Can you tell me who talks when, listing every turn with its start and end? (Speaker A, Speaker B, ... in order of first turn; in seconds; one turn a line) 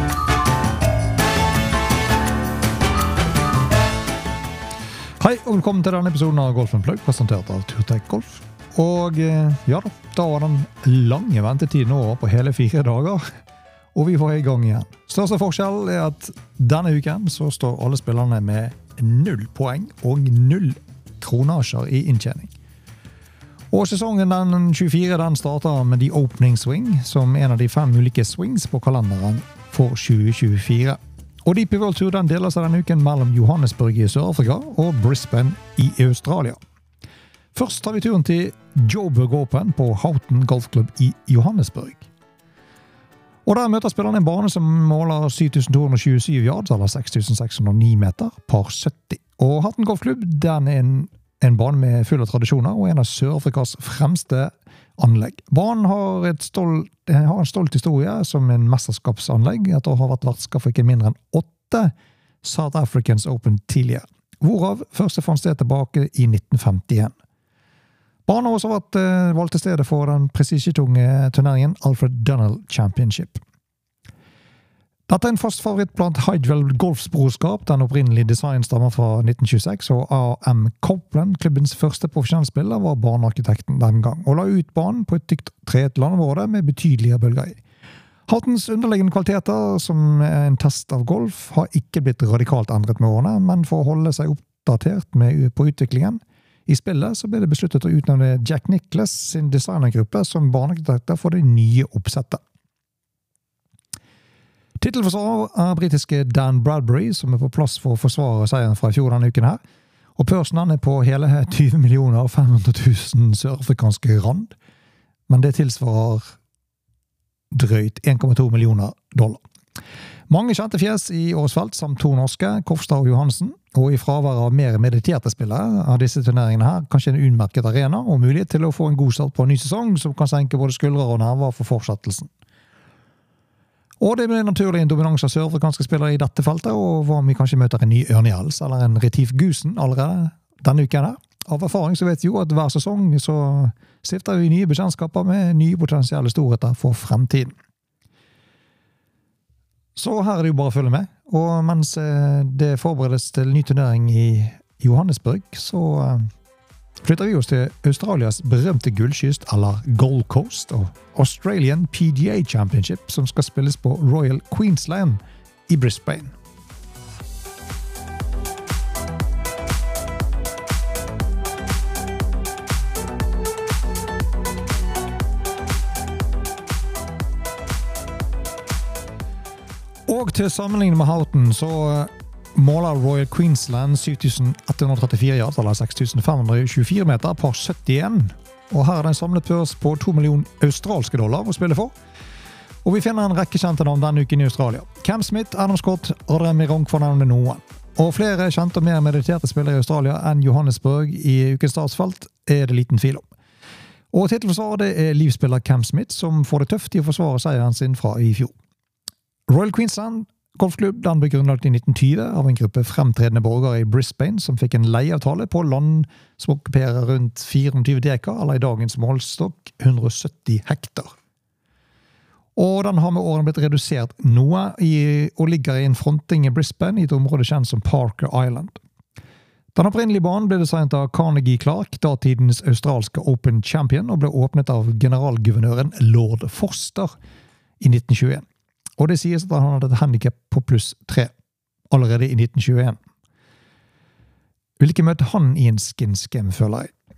Speaker A: 5.2-13.2
Speaker A: 13.9-22.5
Speaker A: 23.7-36.6
Speaker A: 37.5-42.1
Speaker A: 43.5-67.1
Speaker A: 68.3-73.4
Speaker A: 75.1-87.6
Speaker A: 88.3-102.4
Speaker A: 104.8-109.6
Speaker A: 110.2-114.5
Speaker A: 115.3-116.3
Speaker A: 117.5-119.4
Speaker A: 120.3-132.3
Speaker A: 134.0-147.6
Speaker A: 150.0-156.3
Speaker A: 157.0-166.3
Speaker A: 180.1-191.9
Speaker A: 192.8-203.3
Speaker A: 204.1-208.5
Speaker A: 209.5-221.1
Speaker A: 222.6-228.8
Speaker A: 229.8-237.2
Speaker A: 237.8-238.4
Speaker A: 239.0-241.3
Speaker A: 241.9-243.0
Speaker A: 244.8-246.9